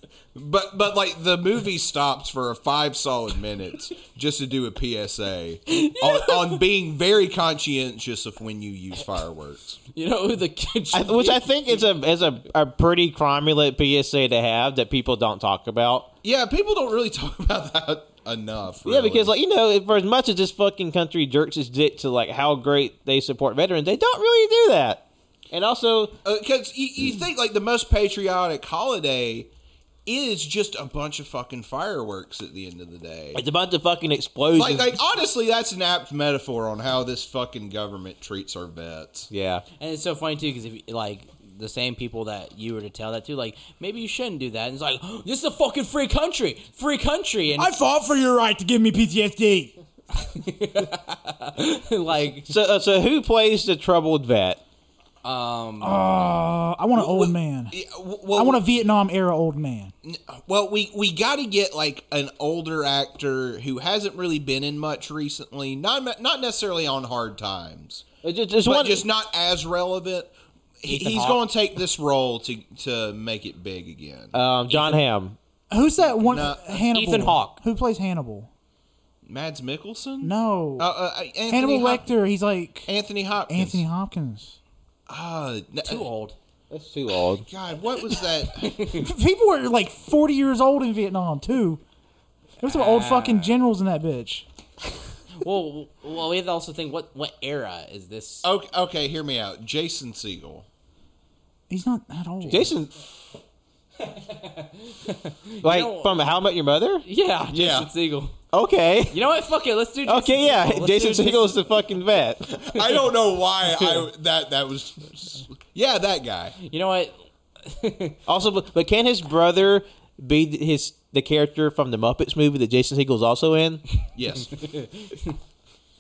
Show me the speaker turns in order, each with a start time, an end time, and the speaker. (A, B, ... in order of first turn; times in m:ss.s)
0:00.4-0:09.8 A
0:05.8-0:06.5 B
0:09.9-0:11.8 B
0:10.9-0:16.1 C
0:16.2-0:19.3 A
0:18.8-0:26.2 C
0:26.2-0:29.5 A
0:30.1-0:33.4 A
0:33.4-0:35.0 C
0:34.6-0:39.3 A
0:39.3-0:39.6 C
0:39.8-0:47.7 B
0:47.6-0:49.7 D
0:50.2-0:52.5 B
0:52.5-0:54.6 C
0:55.2-0:56.2 B
0:55.8-0:57.8 D
0:56.9-0:58.6 A
0:58.3-0:59.9 D
1:00.0-1:08.0 A
1:08.2-1:09.0 C
1:08.6-1:14.4 A
1:10.9-1:11.4 B
1:14.3-1:15.4 C
1:14.7-1:15.0 B
1:15.7-1:18.5 D
1:16.2-1:16.8 A
1:16.9-1:17.6 B
1:19.2-1:22.1 A
1:20.2-1:20.9 D
1:21.5-1:22.9 D
1:22.9-1:23.8 A
1:23.5-1:24.6 D
1:25.1-1:26.1 A
1:25.8-1:26.4 B
1:26.7-1:27.4 C
1:27.4-1:28.9 A
1:28.6-1:29.1 B
1:29.0-1:31.8 D
1:32.6-1:34.4 D
1:32.6-1:33.6 B
1:35.3-1:38.5 B
1:38.4-1:40.7 A
1:41.7-1:42.7 D
1:42.5-1:42.9 C
1:44.0-1:46.2 B
1:45.6-1:47.0 C
1:47.0-1:48.4 B
1:47.5-1:47.9 A
1:48.5-1:49.3 C
1:49.1-1:51.6 B
1:50.1-1:52.8 C
1:52.5-1:56.6 A
1:56.6-1:58.2 B
1:58.3-2:03.8 C
2:04.2-2:04.7 A
2:04.8-2:05.1 B